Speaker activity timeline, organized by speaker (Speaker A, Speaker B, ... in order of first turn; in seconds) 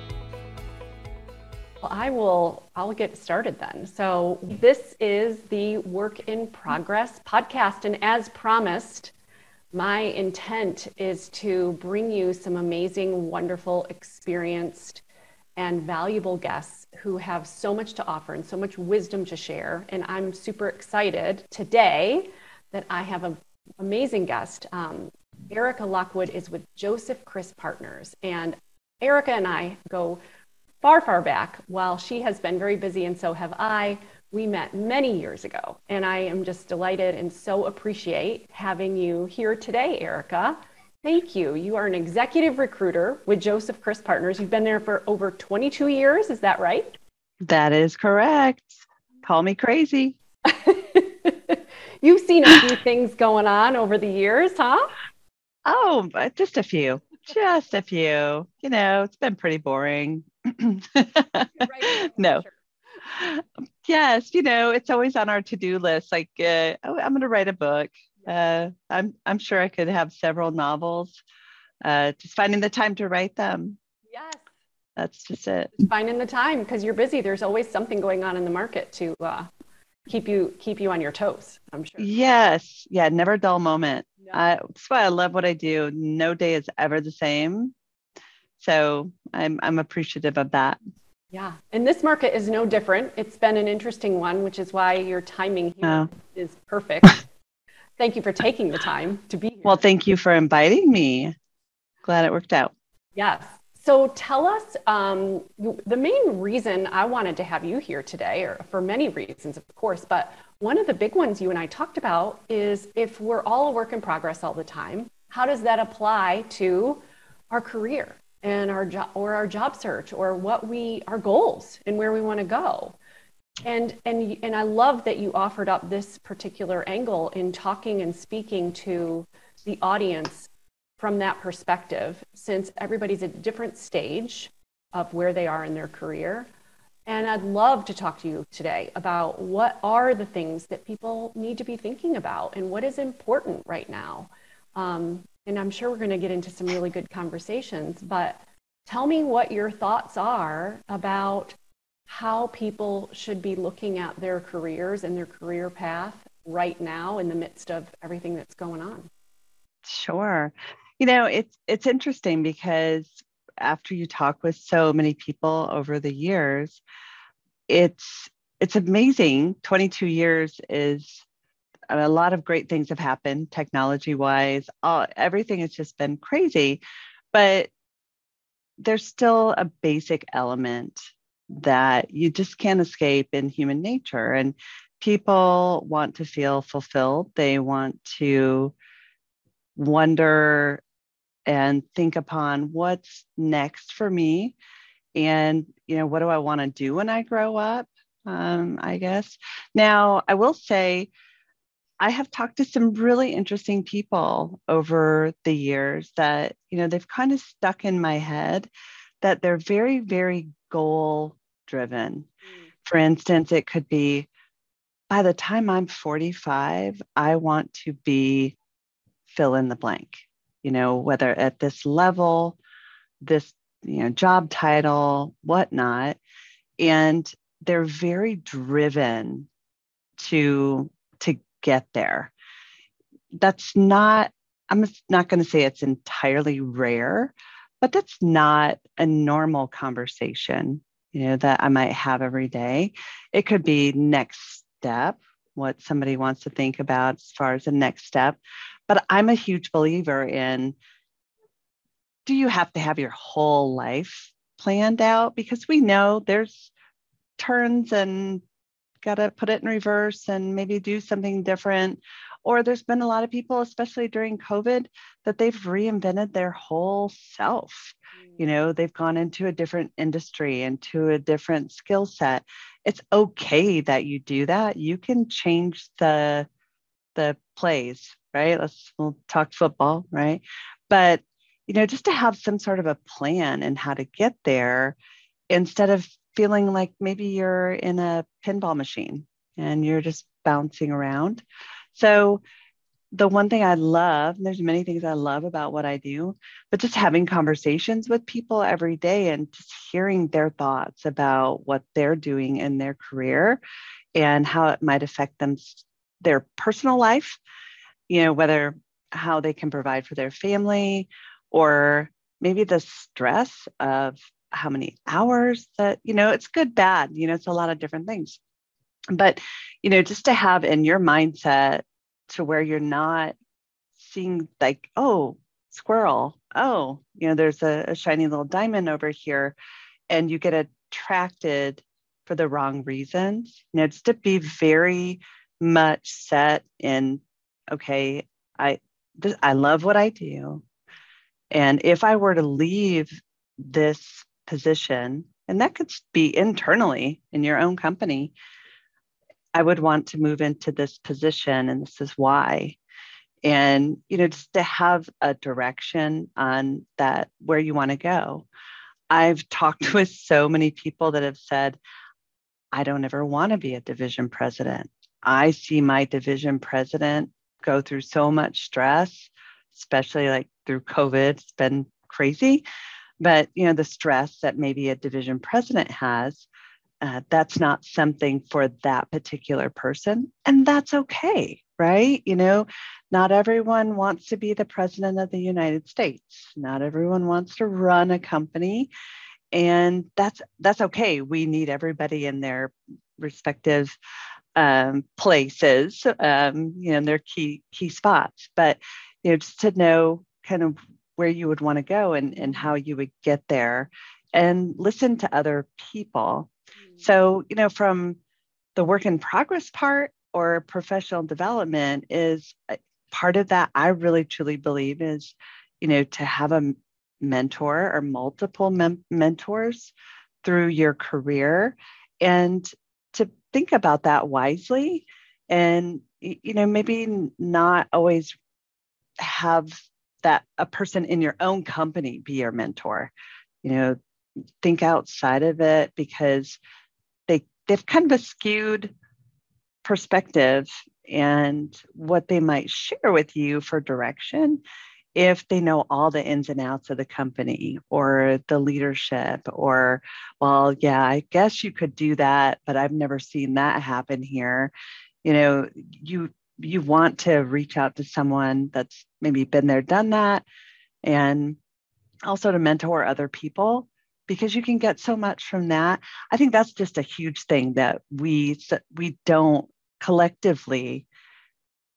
Speaker A: 1.8-9.1, 9.7-15.0, 15.6-30.2, 30.8-46.9, 50.5-54.9, 61.6-62.6, 74.1-74.5, 75.8-79.5, 80.1-82.1, 91.3-97.2, 98.0-99.8, 103.2-123.0, 123.6-136.5, 137.1-151.6, 152.1-159.1, 212.4-212.7
Speaker B: 47.4-50.2, 55.6-62.4, 63.1-71.2, 71.8-73.8, 75.0-75.8, 82.0-87.8, 88.6-90.8, 95.8-96.1, 99.7-101.4, 102.0-102.7, 159.8-166.8, 167.7-171.2, 171.9-176.8, 177.3-177.7, 178.8-188.8, 189.8-190.8, 191.5-194.6, 195.2-201.1, 202.0-208.7, 209.2-212.3, 212.8-214.3, 215.1-218.6, 219.3-222.6, 223.2-226.2, 226.8-229.5, 230.2-232.3, 233.3-250.8, 252.3-256.7, 257.4-258.4, 259.0-276.5, 277.1-285.0, 285.5-291.4, 291.9-292.4, 293.1-303.6, 304.2-307.4, 308.1-318.4, 319.1-323.4, 324.0-329.6, 330.1-340.6, 341.5-348.3, 349.6-352.8, 353.4-358.5, 359.1-361.8, 362.7-372.6, 373.2-376.5, 377.0-388.9, 389.5-394.0, 394.6-408.2, 408.8-419.9, 420.4-428.3, 429.2-433.1, 433.6-434.0, 434.6-436.6, 437.3-438.9, 439.8-444.6, 445.1-454.7, 455.2-460.4, 461.1-461.6, 462.3-471.1